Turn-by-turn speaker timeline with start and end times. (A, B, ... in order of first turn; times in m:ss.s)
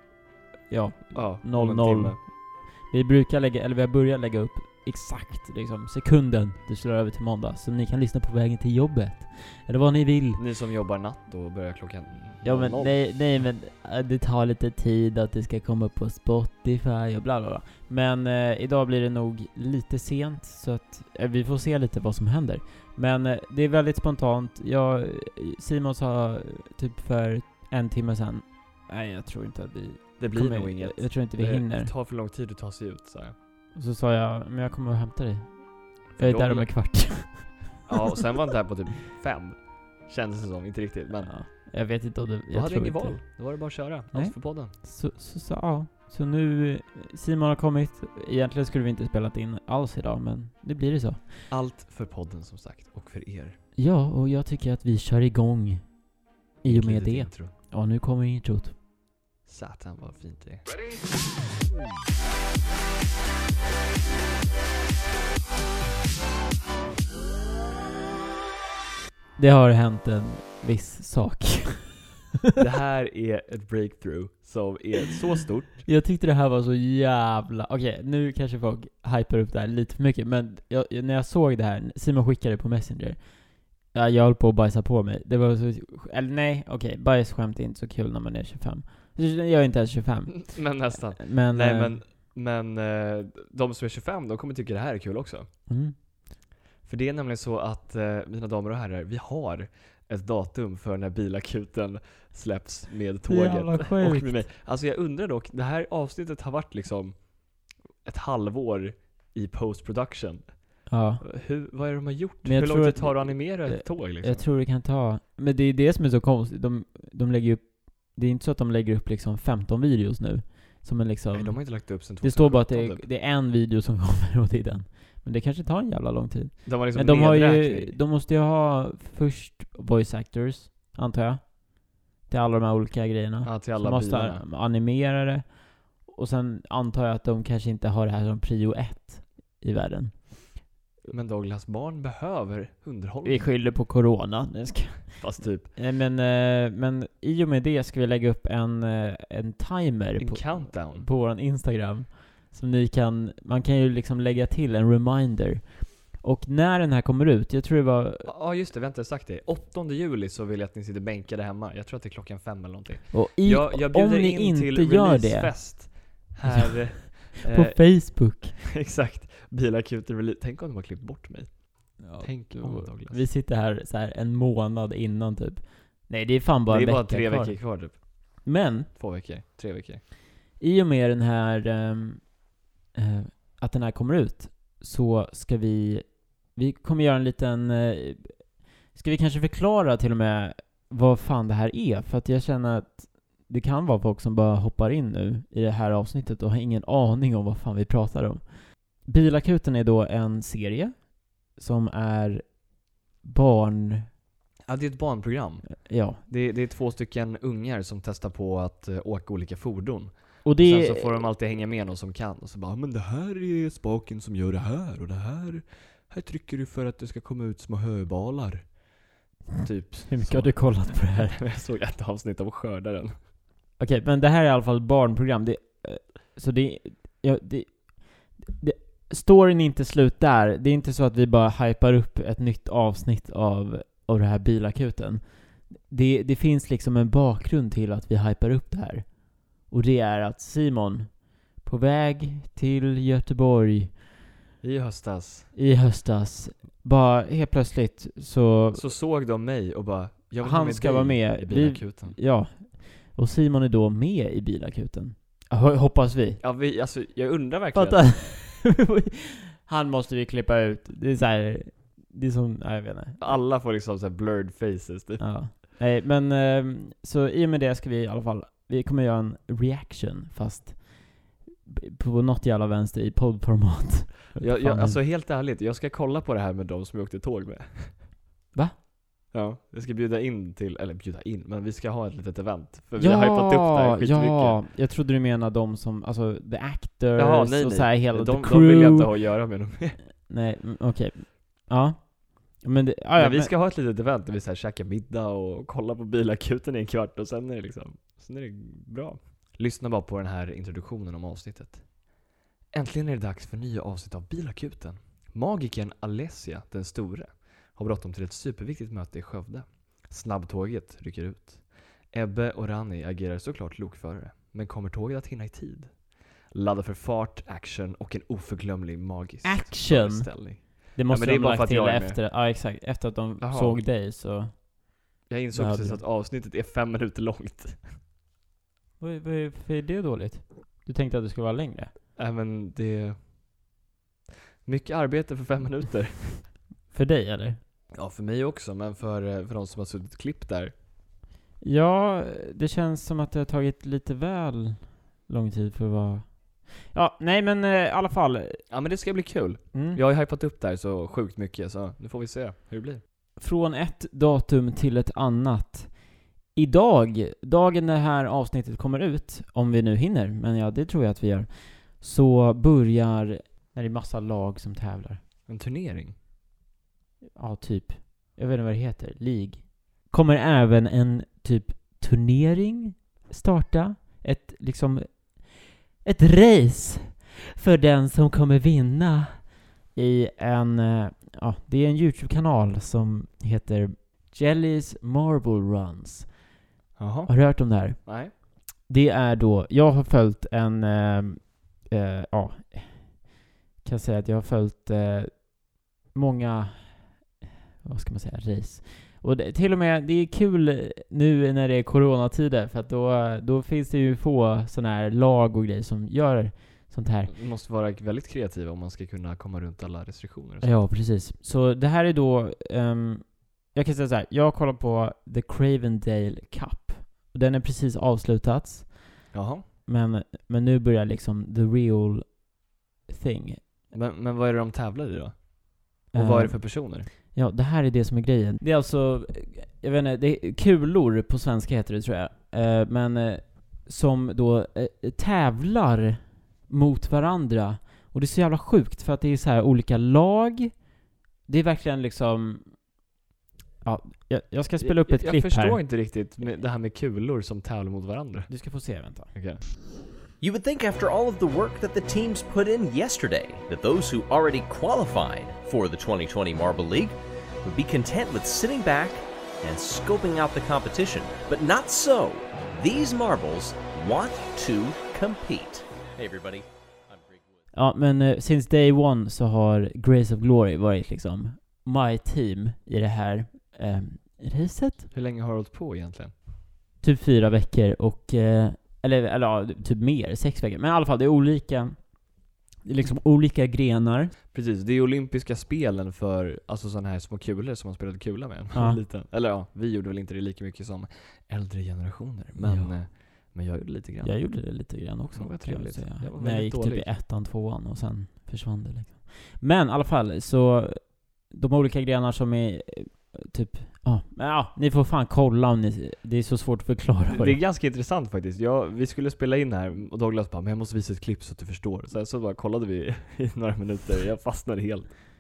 0:00.7-0:10.4 A
0:01.1-0:02.2 B
0:10.4-0:13.4 B
0:12.4-0:31.9 A
0:30.2-0:33.3 B
0:33.7-0:38.0 A
0:36.2-0:37.2 B
0:37.9-0:41.3 B
0:41.2-0:43.3 A
0:42.5-0:44.7 B
0:44.1-0:51.3 A
0:51.5-0:53.6 B
0:53.8-0:56.0 A
0:56.6-0:58.7 A
0:56.6-0:57.5 B
0:59.4-1:00.6 B
1:09.4-1:12.5 A
1:12.6-1:15.8 B
1:15.8-1:32.0 A
1:30.4-1:35.5 B
1:35.7-1:35.9 A
1:36.8-1:47.3 B
1:43.3-1:44.4 A
1:48.0-1:54.4 B
1:50.9-1:51.2 A
1:52.4-2:20.6 A
2:01.3-2:03.1 B
2:06.6-2:08.0 B
2:13.4-2:14.4 B
2:21.1-2:23.5 B
2:23.2-2:38.3 A
2:25.2-2:25.7 B
2:30.2-2:31.1 B
2:38.2-2:53.2 B
2:43.1-2:45.8 A
2:46.4-2:48.6 A
2:52.0-2:57.6 A
2:56.7-3:00.0 B
2:58.4-2:58.9 A
3:00.6-3:02.3 A
3:02.9-3:22.6 A
3:23.2-3:24.1 A
3:24.7-3:38.8 B
3:25.8-3:26.2 A
3:30.4-3:31.3 A
3:39.6-3:43.2 B
3:40.1-3:41.4 A
3:43.8-4:04.0 A
4:04.6-4:05.5 B
4:05.5-4:08.8 A
4:08.7-4:12.2 B
4:10.4-4:16.4 A
4:16.4-4:18.4 B
4:17.7-4:23.3 A
4:23.2-4:25.2 B
4:25.2-4:35.0 A
4:34.4-4:38.0 B
4:39.3-4:44.6 B
4:43.0-4:49.1 A
4:47.2-4:50.0 B
4:50.2-4:53.5 A
4:53.2-5:01.9 B
5:02.7-5:22.2 B
5:19.4-5:24.7 A
5:23.4-5:23.8 B
5:25.3-5:27.9 B
5:25.5-5:26.0 A
5:29.0-5:31.9 A
5:32.2-5:33.2 B
5:34.6-5:36.5 B
5:36.9-5:37.6 A
5:37.9-5:40.7 B
5:41.6-5:48.6 A
5:48.7-5:53.0 B
5:49.7-5:50.0 A
5:53.4-6:05.2 A
6:05.5-6:06.1 B
6:07.4-6:26.3 A
6:27.0-6:28.3 B
6:27.3-6:33.3 A
6:33.8-6:37.2 A
6:37.8-6:47.3 A
6:47.3-6:50.8 B
6:50.6-6:59.3 A
6:59.3-6:59.6 B
6:59.8-7:03.6 A
7:03.9-7:07.1 B
7:06.1-7:20.8 A
7:21.5-7:22.8 A
7:23.8-7:25.8 A
7:24.8-7:28.5 B
7:28.5-7:29.3 A
7:29.3-7:29.6 B
7:30.4-7:47.4 C
7:47.7-7:55.1 A
7:55.1-7:56.3 B
7:57.0-8:04.3 A
8:04.5-8:14.6 B
8:12.6-8:12.9 A
8:14.2-8:27.6 A
8:15.3-8:17.1 B
8:27.3-8:35.1 B